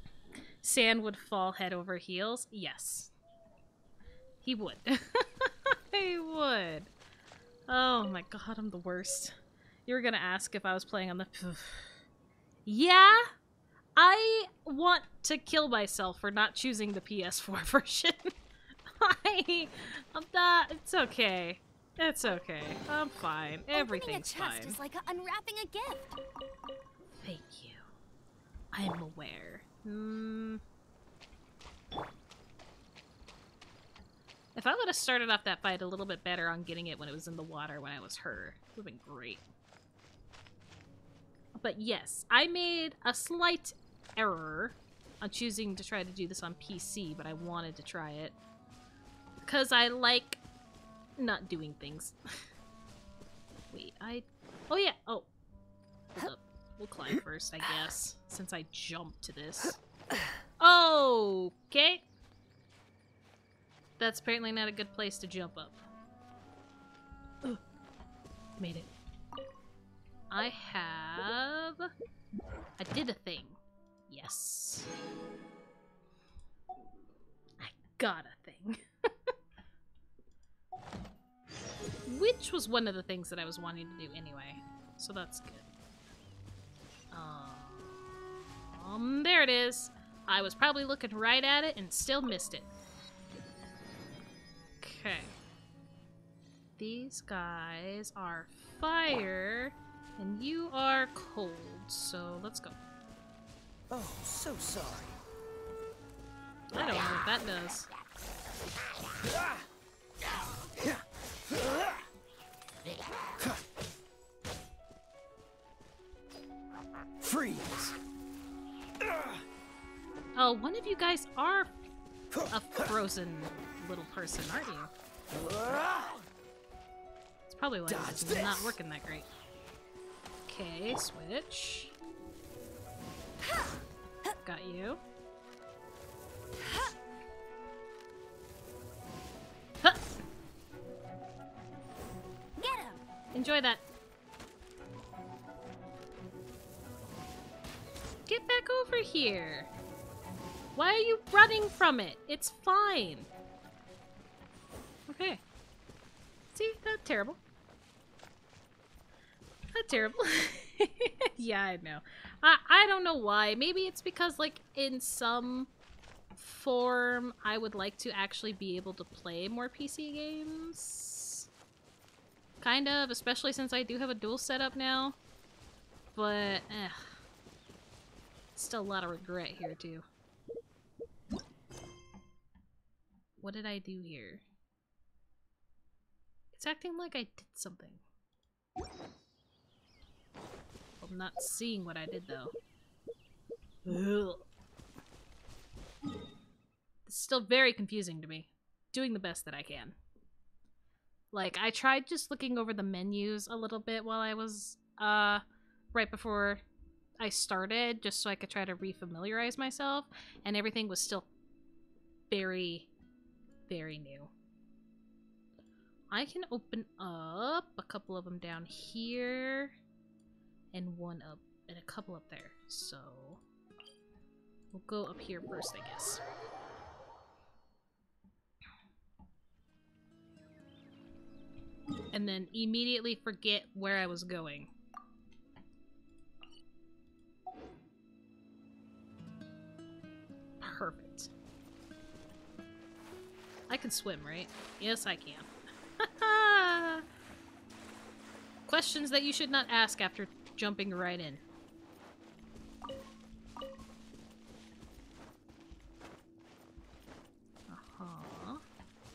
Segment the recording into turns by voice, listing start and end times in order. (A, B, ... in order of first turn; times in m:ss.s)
0:00.6-0:03.1 A
0:04.4-0:06.9 A
0:07.7-0:09.4 A
0:09.9-0:12.0 A
0:12.7-0:13.3 A
0:14.0-0:18.3 A
0:19.0-0:24.8 A
0:23.7-0:26.2 B
0:27.2-0:27.8 A
0:28.7-0:30.6 A
0:34.6-0:39.4 A
0:41.6-0:48.4 A
0:49.4-0:50.4 A
0:51.2-0:52.4 A
0:53.7-0:55.3 A
0:56.2-0:59.8 A
1:00.6-1:02.0 A
1:04.0-1:05.8 A
1:08.6-1:08.9 A
1:10.3-1:11.9 A
1:12.8-1:14.9 A
1:17.6-1:19.3 A
1:22.1-1:25.6 A
1:27.1-1:28.0 A
1:28.7-1:32.7 A
1:34.8-1:35.4 A
1:36.8-1:42.8 A
1:43.9-1:45.2 C
1:46.7-1:47.9 A
1:57.2-1:58.0 C
1:59.0-1:59.4 C
2:00.4-2:01.7 A
2:02.5-2:04.9 A
2:05.3-2:06.1 C
2:07.5-2:09.3 A
2:07.9-2:08.8 C
2:10.5-2:11.9 A
2:14.4-2:15.0 A
2:22.6-2:23.0 B
2:23.3-2:23.8 A
2:28.3-2:29.7 A
2:30.8-2:33.3 A
2:35.1-2:35.4 A
2:36.5-2:37.4 A
2:39.7-2:45.7 A
2:46.4-2:51.5 A
2:52.6-2:55.2 A
2:56.2-2:57.2 A
2:58.6-3:00.0 A
3:03.4-3:04.4 A
3:06.5-3:08.0 A
3:11.0-3:12.5 A
3:13.9-3:14.5 A
3:17.1-3:20.0 A
3:21.3-3:26.6 A
3:27.2-3:31.3 A
3:32.3-3:32.9 A
3:33.7-3:34.3 A
3:36.1-3:39.8 A
3:40.7-3:43.4 A
3:44.7-3:46.2 A
3:52.1-3:54.7 A
4:00.6-4:01.3 A
4:03.7-4:07.0 A
4:08.7-4:11.4 A
4:17.7-4:18.6 A